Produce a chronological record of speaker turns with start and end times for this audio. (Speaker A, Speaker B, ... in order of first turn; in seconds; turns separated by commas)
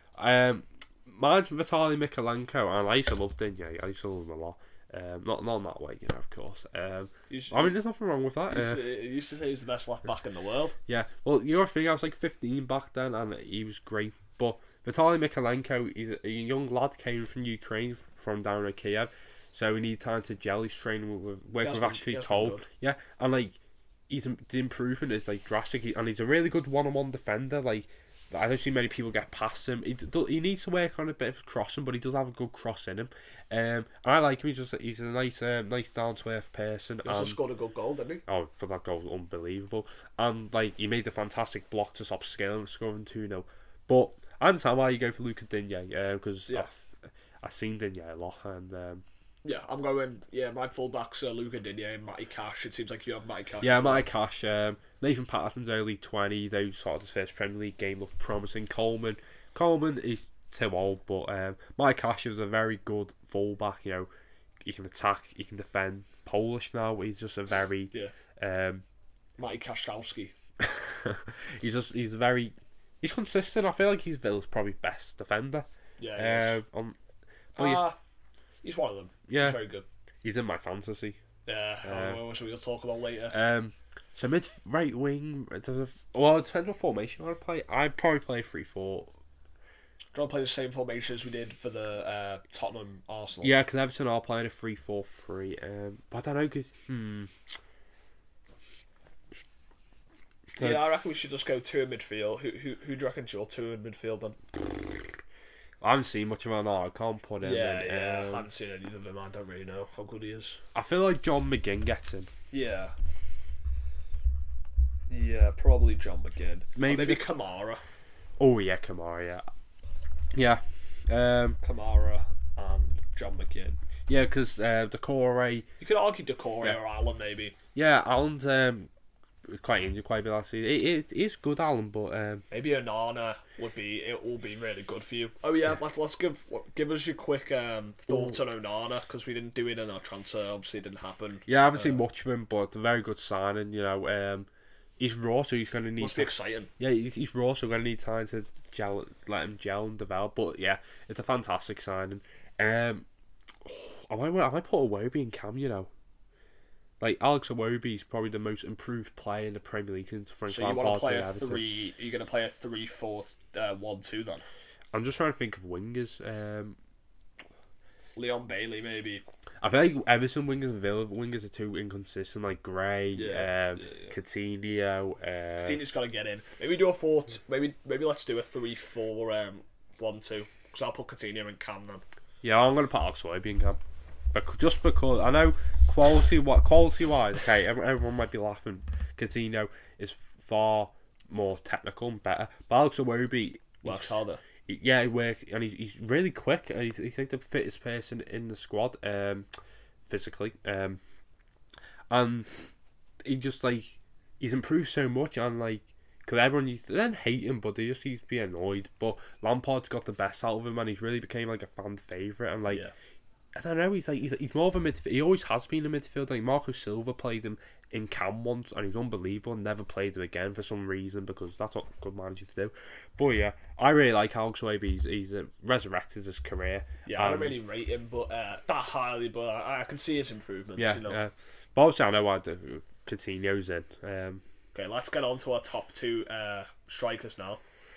Speaker A: 0.1-8.8, Speaker B: 7.3-7.7, Speaker B: 8.5-10.8, Speaker A: 10.9-23.6, Speaker B: 21.6-22.6, Speaker A: 24.1-37.4, Speaker B: 37.0-38.2, Speaker A: 38.3-49.0, Speaker B: 49.4-54.1, Speaker A: 53.6-64.1, Speaker A: 64.6-68.8, Speaker B: 69.4-70.3, Speaker A: 70.6-77.0, Speaker B: 76.0-76.6, Speaker A: 77.5-77.9, Speaker B: 77.5-78.0, Speaker B: 78.6-79.8, Speaker A: 79.3-79.6, Speaker A: 80.2-81.2, Speaker B: 81.5-83.3, Speaker A: 81.8-82.2, Speaker A: 83.3-89.1, Speaker B: 90.1-93.5, Speaker A: 93.4-97.3, Speaker A: 100.5-100.9, Speaker B: 100.6-104.4, Speaker A: 105.8-108.5, Speaker B: 107.4-110.6, Speaker A: 110.7-112.3, Speaker B: 112.5-112.9, Speaker B: 115.1-117.8, Speaker A: 116.8-117.2, Speaker A: 118.4-119.4, Speaker A: 120.3-121.6, Speaker B: 121.6-123.8, Speaker A: 124.1-125.7, Speaker B: 125.8-127.5, Speaker A: 127.7-128.9, Speaker A: 129.4-132.4, Speaker B: 132.5-142.0, Speaker A: 138.1-138.4, Speaker A: 141.5-144.5, Speaker A: 145.0-153.1, Speaker B: 146.0-146.7, Speaker A: 153.6-155.9, Speaker A: 157.0-161.6, Speaker B: 160.5-164.4, Speaker A: 164.9-166.8, Speaker B: 168.2-169.2, Speaker A: 169.6-175.8, Speaker B: 173.1-174.1, Speaker B: 175.6-182.0, Speaker A: 182.4-183.8, Speaker A: 184.3-194.0, Speaker B: 193.8-194.4, Speaker A: 194.7-199.5, Speaker A: 200.1-201.0, Speaker A: 202.1-202.5, Speaker A: 203.2-212.9, Speaker A: 213.5-227.6, Speaker B: 227.0-231.2, Speaker A: 230.8-234.4, Speaker B: 234.7-237.6